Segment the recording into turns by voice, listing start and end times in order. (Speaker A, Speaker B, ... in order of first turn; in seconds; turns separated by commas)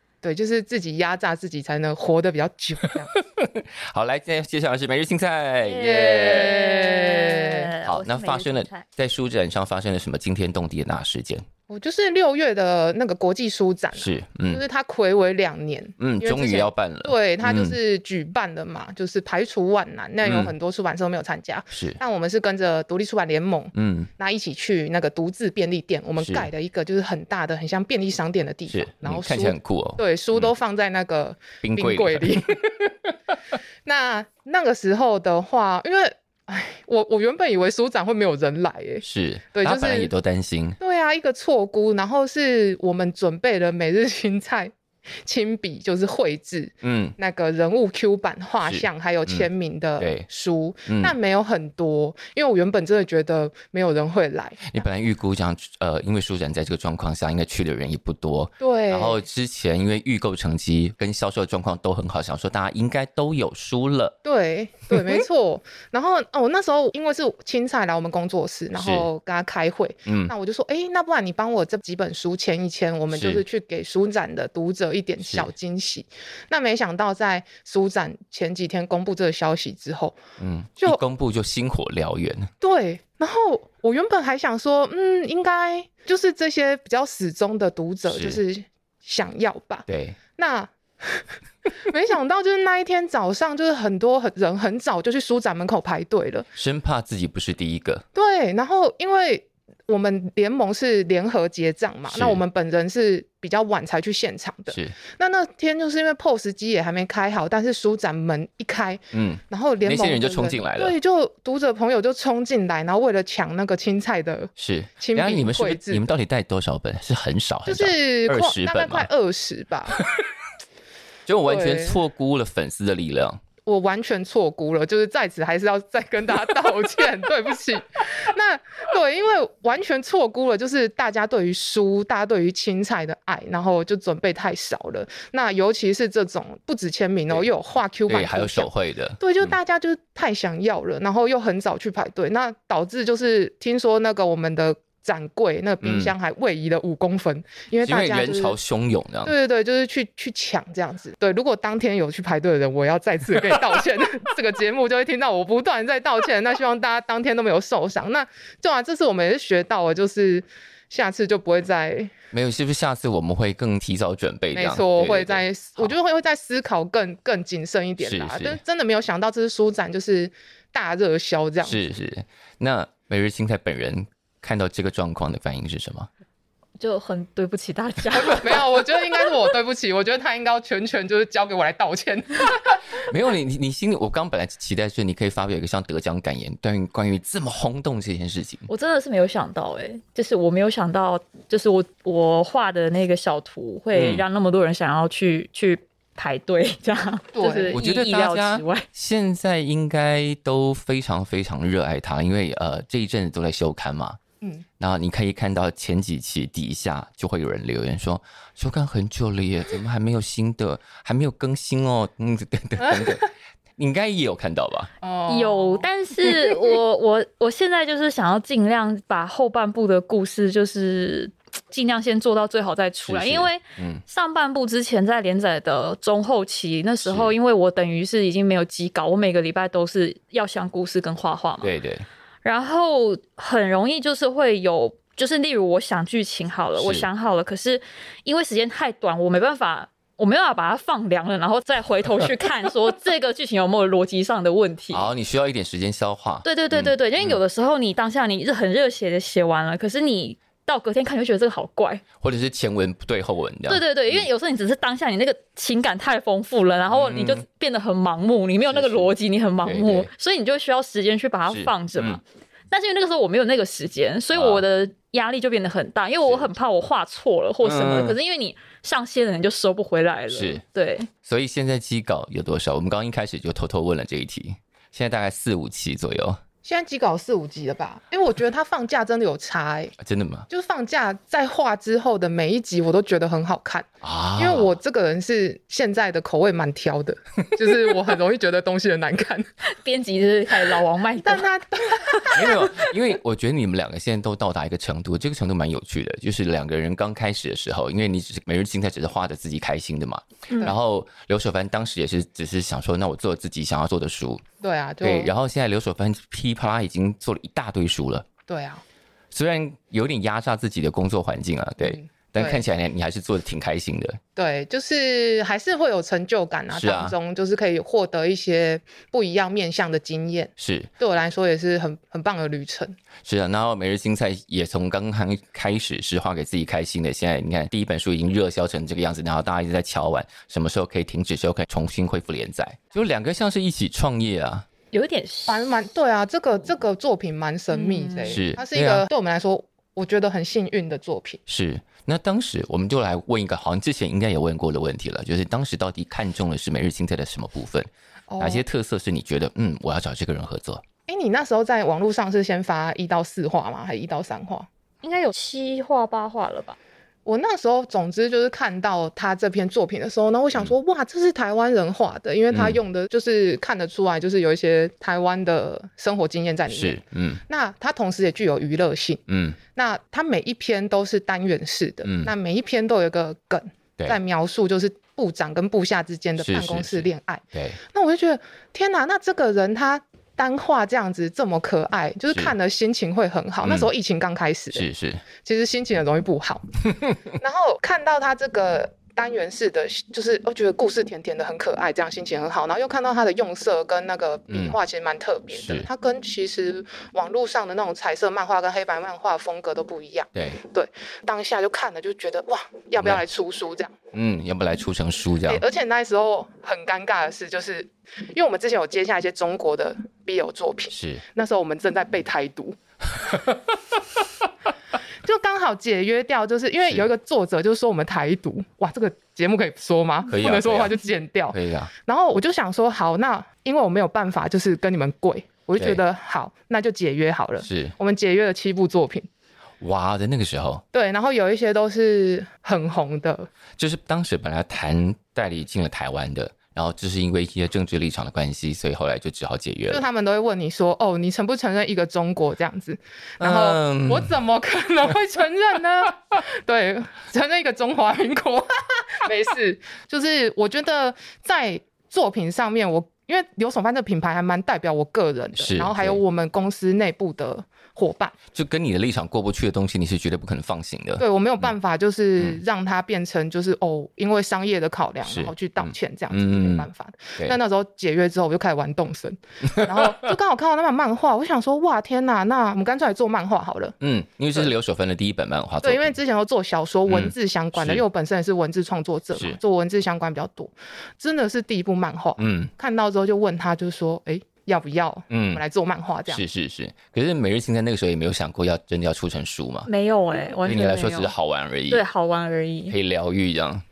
Speaker A: 0.2-3.1, Speaker B: 3.1-6.5, Speaker C: 5.7-8.9, Speaker A: 5.8-7.7, Speaker B: 7.8-11.4, Speaker A: 11.7-32.9, Speaker B: 14.0-14.6, Speaker B: 16.0-17.8, Speaker B: 20.2-20.5, Speaker B: 21.7-22.0, Speaker B: 23.7-24.1, Speaker B: 26.2-26.5, Speaker B: 28.7-30.5, Speaker B: 31.6-32.4, Speaker A: 33.9-40.1, Speaker B: 39.0-40.8, Speaker A: 40.8-44.7, Speaker A: 45.2-54.7, Speaker B: 46.8-47.1, Speaker B: 48.6-49.5, Speaker B: 50.0-50.3, Speaker B: 50.9-51.1, Speaker B: 54.6-64.2, Speaker A: 58.6-59.2, Speaker A: 64.2-80.2, Speaker B: 68.8-69.1, Speaker B: 70.1-70.3, Speaker B: 73.1-73.4, Speaker B: 75.2-75.5, Speaker B: 80.4-82.5, Speaker A: 82.6-96.5, Speaker B: 88.1-88.4, Speaker B: 89.9-90.2, Speaker B: 96.6-98.0, Speaker A: 98.1-116.0, Speaker B: 102.1-102.4, Speaker B: 109.1-111.0, Speaker B: 114.6-119.1, Speaker A: 117.7-120.0, Speaker B: 121.3-123.4, Speaker A: 121.5-122.0, Speaker A: 123.7-148.6, Speaker B: 138.1-139.5, Speaker B: 145.8-146.1, Speaker B: 147.8-149.3, Speaker A: 149.2-162.1, Speaker B: 162.3-165.9, Speaker A: 164.5-171.8, Speaker B: 168.0-168.6, Speaker B: 171.6-176.1, Speaker C: 176.8-178.8, Speaker A: 178.1-182.8, Speaker B: 183.0-188.7, Speaker C: 188.7-198.9, Speaker B: 193.9-194.2, Speaker A: 197.3-197.8, Speaker B: 197.7-204.2, Speaker B: 204.8-214.9, Speaker A: 212.8-213.3, Speaker A: 215.0-216.5, Speaker C: 215.3-231.7, Speaker B: 223.1-224.0, Speaker B: 227.1-227.3, Speaker B: 231.6-232.1, Speaker C: 232.4-245.1, Speaker B: 236.8-237.1, Speaker B: 244.9-247.4, Speaker C: 246.4-252.0, Speaker B: 252.2-254.2, Speaker C: 253.7-271.1, Speaker B: 256.9-257.4, Speaker B: 258.7-259.1, Speaker B: 259.6-260.1, Speaker B: 261.5-262.2, Speaker B: 264.3-264.6, Speaker B: 266.2-266.5, Speaker B: 267.6-268.2, Speaker B: 270.3-270.6, Speaker B: 271.2-276.4, Speaker A: 276.6-279.9, Speaker B: 280.0-280.5, Speaker A: 280.5-289.5, Speaker B: 284.0-284.8, Speaker C: 289.8-291.5, Speaker A: 291.2-292.6, Speaker C: 292.1-292.9, Speaker B: 292.3-304.4, Speaker A: 304.6-305.3, Speaker B: 305.0-308.3, Speaker A: 308.5-308.8, Speaker B: 309.3-314.2, Speaker A: 311.8-312.6, Speaker A: 314.4-323.0, Speaker B: 316.7-317.2, Speaker B: 320.6-320.9, Speaker B: 323.2-334.7, Speaker C: 334.9-335.6, Speaker A: 335.5-341.4, Speaker C: 337.7-338.4, Speaker B: 338.3-339.1, Speaker B: 341.5-347.9, Speaker A: 348.3-348.6, Speaker B: 348.4-350.8, Speaker A: 351.1-354.7, Speaker C: 355.0-356.8, Speaker A: 357.3-369.2, Speaker B: 362.5-362.8, Speaker B: 366.7-367.4, Speaker B: 369.3-369.6, Speaker A: 369.7-384.9, Speaker B: 372.0-372.3, Speaker B: 376.4-377.8, Speaker B: 383.6-383.9, Speaker B: 384.7-385.2, Speaker A: 385.4-386.7, Speaker A: 387.3-403.9, Speaker B: 394.5-394.8, Speaker B: 395.5-395.9, Speaker B: 404.1-405.6, Speaker A: 405.5-412.8, Speaker B: 410.9-411.2, Speaker A: 415.2-429.3, Speaker B: 420.3-420.9, Speaker B: 421.5-421.9, Speaker B: 427.6-427.9, Speaker B: 429.8-430.8, Speaker A: 430.9-433.5, Speaker B: 433.8-440.0, Speaker A: 439.9-458.4, Speaker B: 443.4-444.3, Speaker B: 455.6-456.2, Speaker B: 458.5-461.2, Speaker A: 461.2-473.9, Speaker B: 465.2-467.6, Speaker B: 474.0-476.1, Speaker A: 475.8-486.4, Speaker B: 477.1-478.0, Speaker B: 482.4-482.7, Speaker B: 485.3-485.6, Speaker B: 486.3-489.9, Speaker C: 489.9-491.3, Speaker B: 490.6-492.0, Speaker C: 491.9-493.0, Speaker B: 492.9-493.8